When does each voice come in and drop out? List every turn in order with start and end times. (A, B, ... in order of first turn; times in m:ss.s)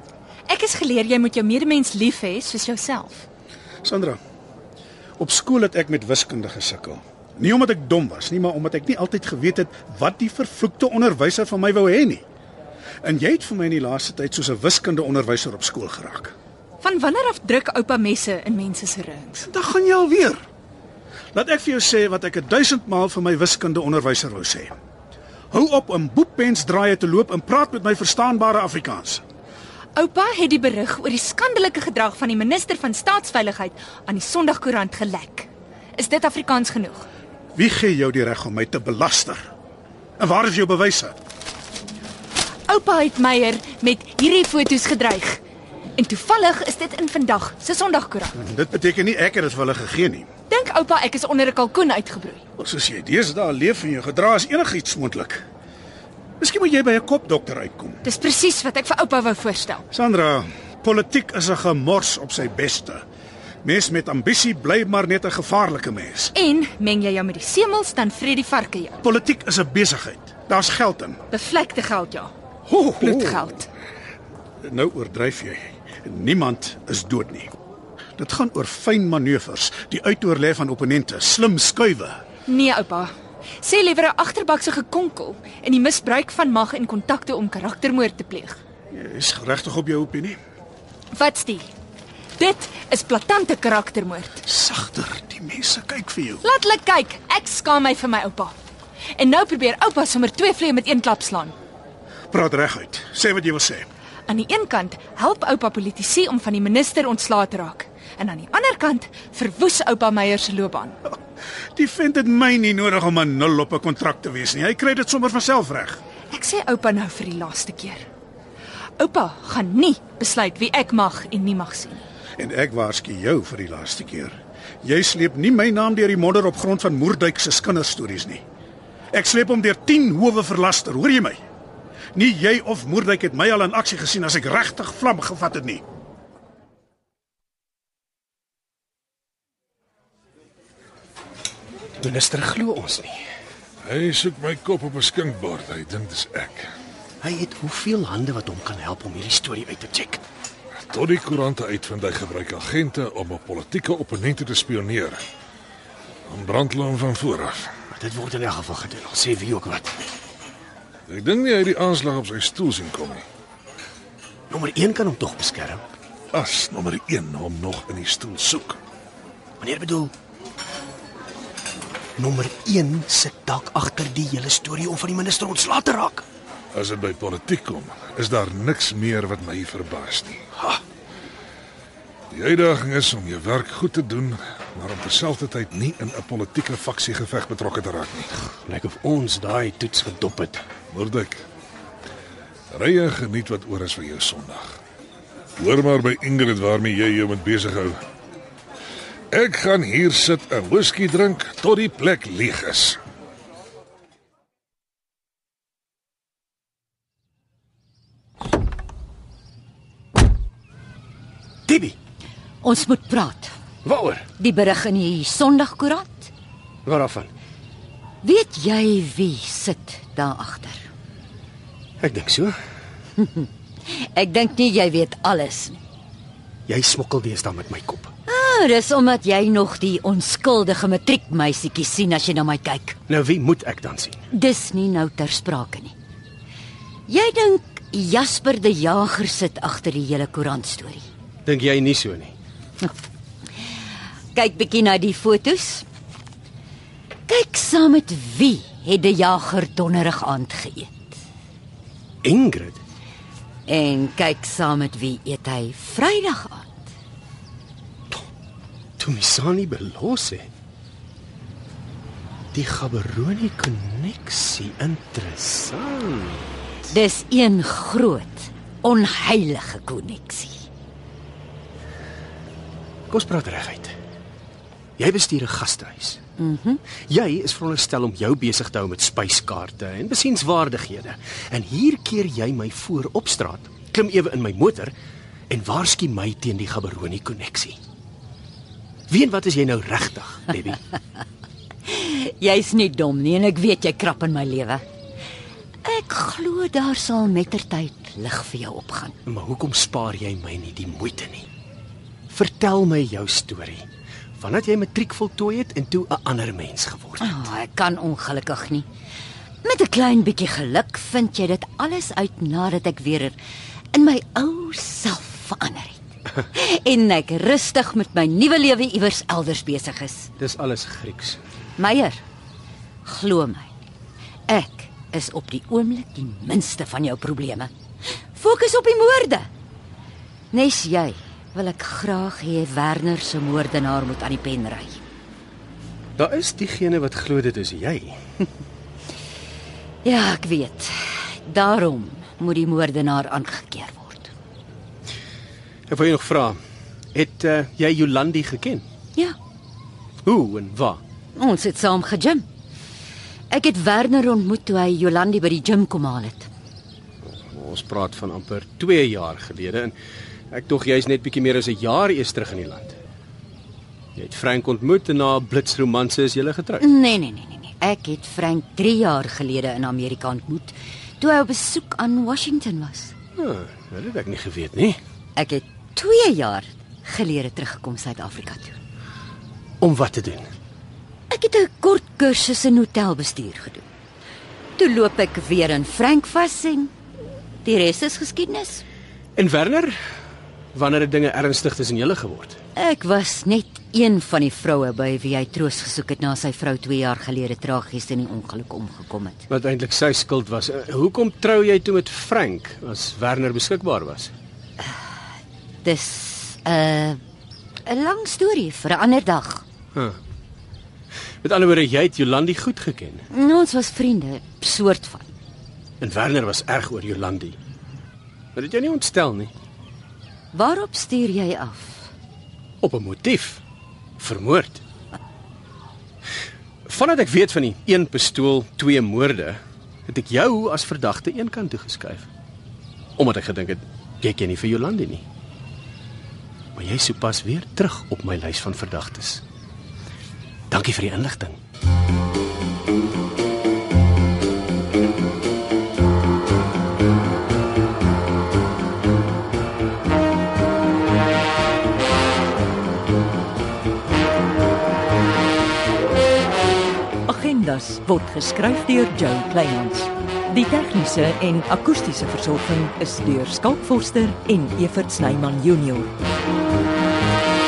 0:00.5-0:03.3 A
0:03.8-0:04.2 B
0:05.2-0:12.2 B
0:13.0-0:16.3 B
0:16.8-0:19.5 A
0:19.5-0:20.4 B
0:21.3-0:24.7 B
0:25.5-0:29.2 B
0:30.0-0:37.1 A
0:37.6-0:39.4 B
0:40.2-0:41.2 B
0:42.7-0:45.4 A
0:46.0-0:48.3 A
0:48.3-0:50.3 B
0:50.5-0:52.4 A
0:52.6-0:55.4 B
0:56.4-0:58.0 B
0:58.0-0:59.8 A
0:59.9-1:03.0 B
1:03.6-1:06.3 B
1:06.3-1:09.0 A
1:09.0-1:11.2 B
1:11.3-1:12.3 A
1:12.7-1:13.3 B
1:13.0-1:13.7 A
1:14.6-1:17.5 B
1:18.2-1:22.2 B
1:22.4-1:28.6 A
1:28.9-1:30.4 B
1:31.1-1:31.7 A
1:32.4-1:34.4 A
1:34.4-1:36.4 B
1:36.4-1:38.5 A
1:39.2-1:41.5 A
1:42.3-1:43.9 B
1:44.3-1:51.0 A
1:51.8-1:56.0 B
1:56.3-1:58.0 A
1:59.0-2:02.0 A
2:02.4-2:08.4 B
2:09.1-2:11.4 B
2:12.1-2:15.8 B
2:22.0-2:23.2 C
2:23.8-2:26.7 D
2:27.2-2:30.2 C
2:30.9-2:35.2 D
2:36.3-2:37.7 D
2:37.9-2:40.0 C
2:41.1-2:43.2 D
2:44.5-2:45.8 C
2:46.3-2:48.8 D
2:49.6-2:50.1 C
2:52.2-2:56.2 C
2:56.7-3:00.4 D
3:02.3-3:08.3 D
3:08.4-3:10.6 C
3:10.9-3:11.4 D
3:12.7-3:14.8 D
3:15.6-3:18.0 D
3:19.3-3:23.0 D
3:31.7-3:32.0 C
3:32.6-3:33.5 E
3:33.8-3:34.3 C
3:34.4-3:36.3 E
3:36.8-3:37.3 C
3:38.2-3:40.9 E
3:42.0-3:42.5 C
3:43.3-3:45.8 E
3:46.7-3:48.1 C
3:48.3-3:53.0 E
3:53.1-3:54.2 C
3:54.3-3:55.9 E
3:57.1-4:01.1 E
4:01.4-4:02.3 C
4:04.3-4:05.9 E
4:07.3-4:11.2 E
4:12.2-4:12.8 C
4:13.6-4:16.8 E
4:19.0-4:20.5 C
4:22.5-4:26.5 C
4:26.9-4:30.7 E
4:33.1-4:33.9 C
4:35.0-4:36.2 C
4:36.4-4:36.8 E
4:36.9-4:44.9 C
4:45.5-4:47.8 C
4:49.1-4:50.8 C
4:51.9-4:54.8 E
4:55.8-4:59.2 E
4:59.2-5:01.5 C
5:02.3-5:03.8 C
5:04.4-5:07.5 C
5:07.4-5:08.9 E
5:09.6-5:13.4 E
5:13.9-5:16.0 E
5:16.5-5:20.3 E
5:20.4-5:21.4 C
5:21.8-5:22.2 E
5:23.0-5:23.7 E
5:24.5-5:27.7 E
5:28.3-5:29.5 E
5:30.5-5:35.0 E
5:36.2-5:38.2 C
5:40.0-5:44.3 E
5:45.9-5:46.6 C
5:47.1-5:48.8 C
5:50.2-5:51.0 C
5:51.4-5:52.4 E
5:53.5-5:56.5 E
5:57.5-5:59.9 C
6:00.5-6:03.0 C
6:04.2-6:06.9 C
6:06.8-6:13.1 E
6:13.4-6:15.0 C
6:15.4-6:18.8 E
6:19.8-6:20.5 C
6:21.3-6:23.8 E
6:24.8-6:26.9 E
6:27.6-6:28.8 E
6:29.4-6:29.9 C
6:30.7-6:32.6 C
6:32.8-6:39.4 E
6:39.5-6:44.3 C
6:45.8-6:47.2 E
6:47.8-6:49.6 E
6:51.4-6:53.2 C
6:53.3-6:55.3 E
6:56.0-6:57.6 C
6:58.5-6:59.5 C
7:00.5-7:02.1 E
7:02.8-7:03.6 C
7:04.2-7:04.8 C
7:06.8-7:12.3 C
7:13.2-7:15.2 C
7:16.8-7:19.4 C
7:20.7-7:21.6 C
7:37.3-7:46.1 F